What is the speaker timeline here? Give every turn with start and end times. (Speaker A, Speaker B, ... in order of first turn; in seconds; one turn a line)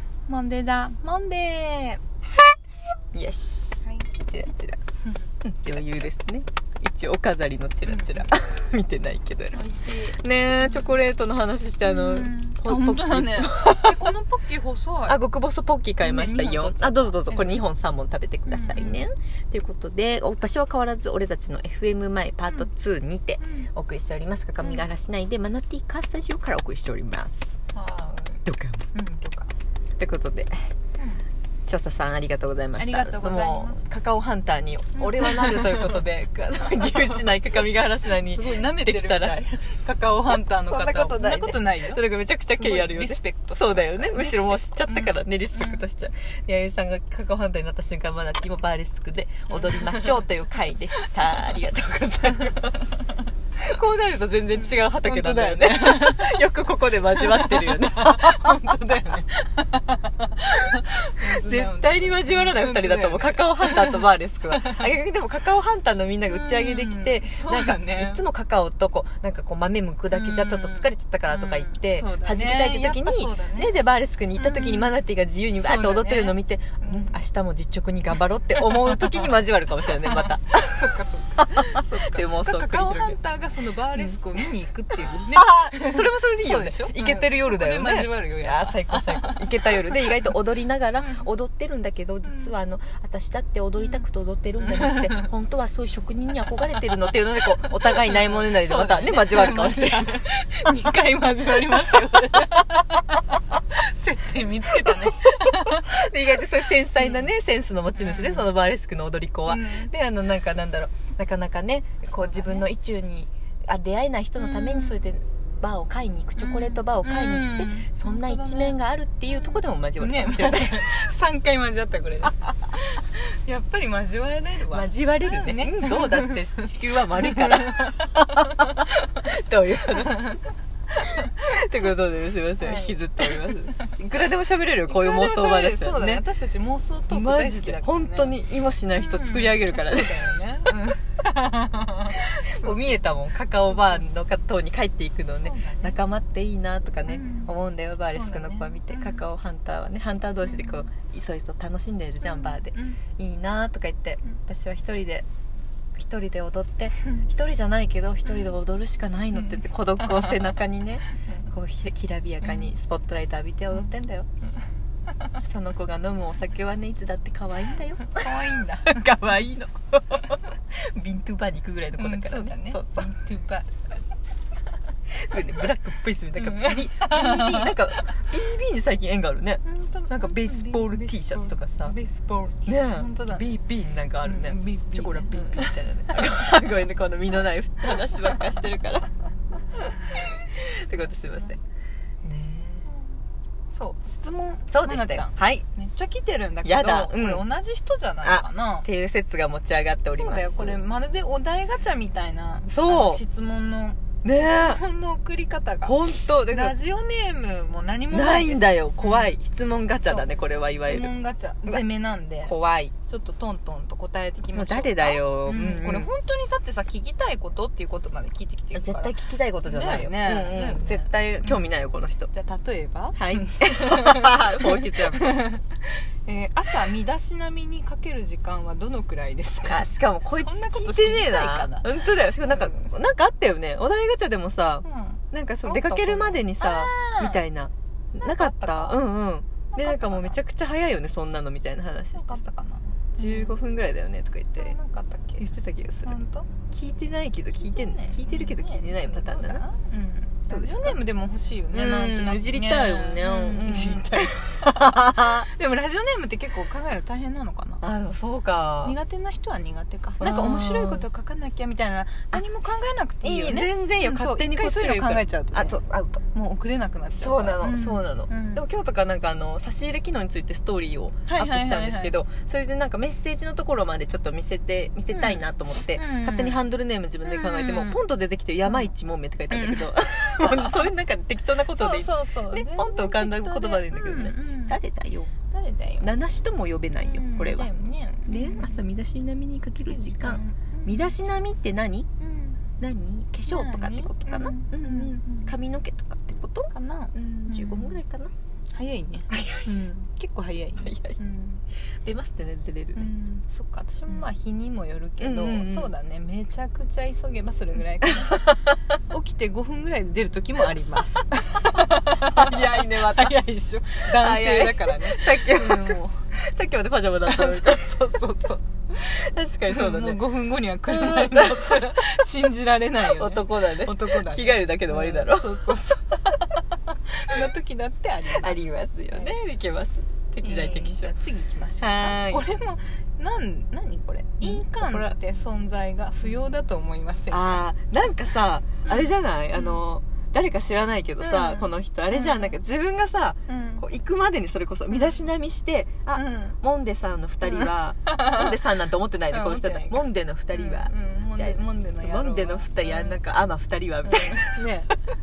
Speaker A: 0.3-2.0
Speaker B: 3.1-3.9
Speaker A: 3.9-6.1
Speaker B: 5.4-14.1
Speaker A: 7.8-8.3
Speaker A: 9.5-11.0
Speaker A: 11.8-15.2
Speaker B: 15.1-27.6
Speaker A: 16.0-17.6
Speaker A: 18.5-19.1
Speaker A: 23.4-23.7
Speaker A: 24.6-24.9
Speaker A: 27.7-28.4
Speaker B: 28.4-28.9
Speaker A: 28.9-29.5
Speaker B: 30.0-30.7
Speaker B: 31.7-39.4
Speaker A: 32.8-33.8
Speaker A: 35.0-36.0
Speaker A: 38.1-45.8
Speaker B: 40.4-52.9
Speaker A: 49.6-50.1
Speaker B: 53.6-58.6
Speaker A: 54.5-56.5
Speaker A: 57.1-64.9
Speaker B: 61.3-80.9
Speaker A: 66.3-68.2
Speaker A: 70.1-73.8
Speaker A: 74.4-75.0
Speaker A: 75.6-77.2
Speaker A: 78.7-79.3
Speaker A: 80.0-90.0
Speaker B: 81.5-83.2
Speaker B: 84.0-84.2
Speaker B: 85.0-100.1
Speaker A: 92.2-92.5
Speaker A: 94.6-95.3
Speaker A: 97.6-105.9
Speaker B: 104.8-121.1
Speaker A: 107.0-107.3
Speaker A: 108.0-108.5
Speaker A: 109.5-109.9
Speaker A: 112.1-112.7
Speaker A: 114.4-115.1
Speaker A: 116.4-118.8
Speaker A: 119.3-128.9
Speaker B: 124.7-130.4
Speaker A: 129.9-130.3
Speaker B: 131.0-136.2
Speaker A: 132.6-133.9
Speaker A: 134.9-138.3
Speaker B: 137.1-140.4
Speaker A: 138.9-143.0
Speaker B: 142.2-155.3
Speaker A: 143.6-144.1
Speaker A: 145.4-146.0
Speaker A: 147.1-147.5
Speaker A: 148.1-149.3
Speaker A: 150.4-150.8
Speaker A: 152.2-153.0
Speaker B: 155.9-164.3
Speaker A: 158.3-158.6
Speaker A: 159.3-160.5
Speaker A: 162.4-162.7
Speaker B: 165.4-173.1
Speaker A: 168.1-169.1
Speaker A: 172.0-174.1
Speaker B: 175.1-181.9
Speaker A: 176.4-178.1
Speaker A: 179.7-183.5
Speaker B: 182.7-189.1
Speaker A: 184.2-186.5
Speaker B: 189.7-190.0
Speaker B: 190.5-191.6
Speaker B: 192.2-192.9
Speaker A: 193.7-198.9
Speaker B: 194.7-195.7
Speaker B: 196.6-197.4
Speaker B: 198.2-200.8
Speaker A: 200.1-209.3
Speaker B: 202.7-203.2
Speaker B: 204.2-204.8
Speaker B: 205.8-206.7
Speaker B: 208.1-211.1
Speaker A: 210.0-212.5
Speaker B: 212.5-212.9
Speaker A: 213.1-221.6
Speaker B: 214.5-216.1
Speaker B: 218.7-222.3
Speaker A: 222.3-232.9
Speaker B: 223.2-225.4
Speaker B: 229.6-242.4
Speaker A: 234.8-237.4
Speaker A: 238.2-239.0
Speaker A: 239.7-240.4
Speaker A: 242.2-243.6
Speaker B: 243.2-244.8
Speaker A: 244.6-245.4
Speaker B: 245.4-246.2
Speaker A: 246.1-246.5
Speaker B: 246.7-249.6
Speaker A: 247.6-257.8
Speaker B: 250.5-251.0
Speaker B: 251.7-255.5
Speaker B: 257.8-259.0
Speaker A: 258.8-265.8
Speaker B: 260.2-261.1
Speaker B: 262.3-266.2
Speaker A: 266.3-268.6
Speaker B: 267.1-285.3
Speaker A: 271.3-272.2
Speaker A: 275.1-276.6
Speaker A: 277.2-278.0
Speaker A: 278.7-278.9
Speaker A: 279.5-280.9
Speaker A: 281.7-284.8
Speaker A: 285.5-286.1
Speaker B: 286.0-287.7
Speaker A: 287.0-288.8
Speaker B: 288.3-292.1
Speaker A: 289.9-291.1
Speaker A: 292.2-292.6
Speaker B: 292.8-298.3
Speaker A: 293.5-295.5
Speaker A: 296.7-298.0
Speaker A: 298.7-301.6
Speaker B: 299.3-299.7
Speaker B: 300.8-301.2
Speaker B: 302.0-303.1
Speaker A: 303.0-308.5
Speaker B: 305.2-305.9
Speaker A: 309.1-316.3
Speaker B: 312.2-313.4
Speaker B: 314.1-317.9
Speaker A: 317.2-329.3
Speaker B: 319.0-320.2
Speaker B: 320.9-321.9
Speaker B: 323.0-325.6
Speaker B: 328.3-331.1
Speaker A: 330.4-337.6
Speaker B: 331.8-332.4
Speaker B: 334.4-335.2
Speaker B: 337.3-354.6
Speaker A: 338.9-339.8
Speaker A: 341.2-342.6
Speaker A: 343.5-343.8
Speaker A: 344.9-345.2
Speaker A: 346.1-346.6
Speaker A: 347.4-348.6
Speaker A: 349.3-353.2
Speaker A: 354.1-354.9